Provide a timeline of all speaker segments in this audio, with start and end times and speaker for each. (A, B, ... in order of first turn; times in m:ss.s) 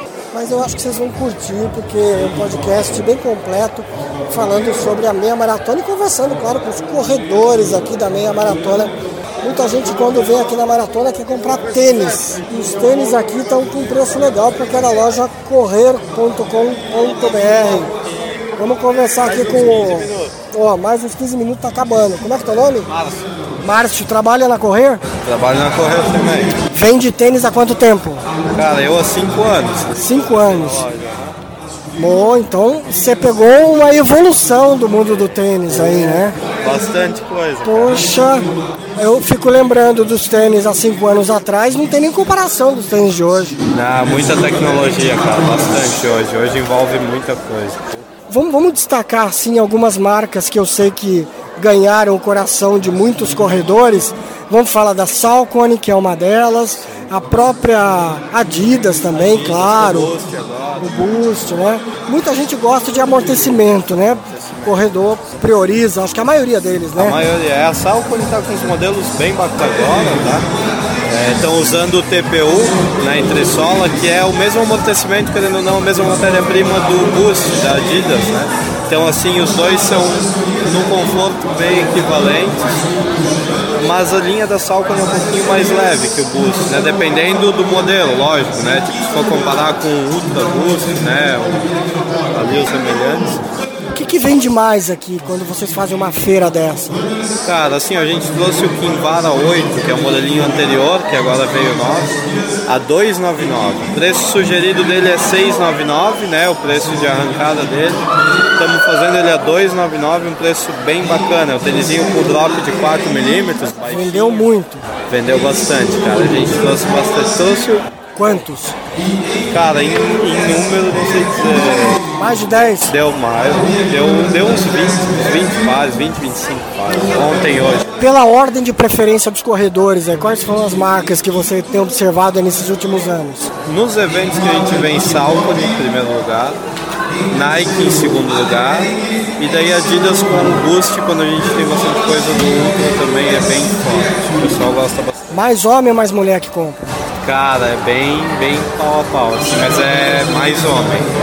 0:00.3-0:17.9 A
0:18.6-0:22.9 A
0:19.3-0:20.3 B
0:22.9-0:23.2 B
0:23.6-0:25.0 A
0:25.1-0:26.6 B
0:26.7-0:28.4 A
0:28.4-0:31.3 B
0:30.0-0:30.9 A
0:32.0-0:36.4 A
0:36.6-0:38.1 B
0:37.6-0:43.6 A
0:43.7-0:48.0 B
0:48.3-1:00.1 A
0:56.8-0:57.2 B
0:59.1-1:00.9 B
1:00.8-1:07.2 A
1:04.1-1:04.8 B
1:07.0-1:10.5 B
1:11.0-1:22.8 B
1:23.8-1:31.7 B
1:32.3-1:33.4 B
1:33.9-1:36.9 A
1:37.4-1:54.5 B
1:53.9-1:54.8 A
1:55.1-1:57.8 B
1:58.2-1:58.8 A
1:59.4-2:02.1 B
2:02.2-2:02.9 A
2:02.8-2:08.0 B
2:08.0-2:13.5 A
2:13.6-2:16.6 B
2:17.3-2:25.2 B
2:25.3-2:26.8 A
2:27.2-2:31.1 B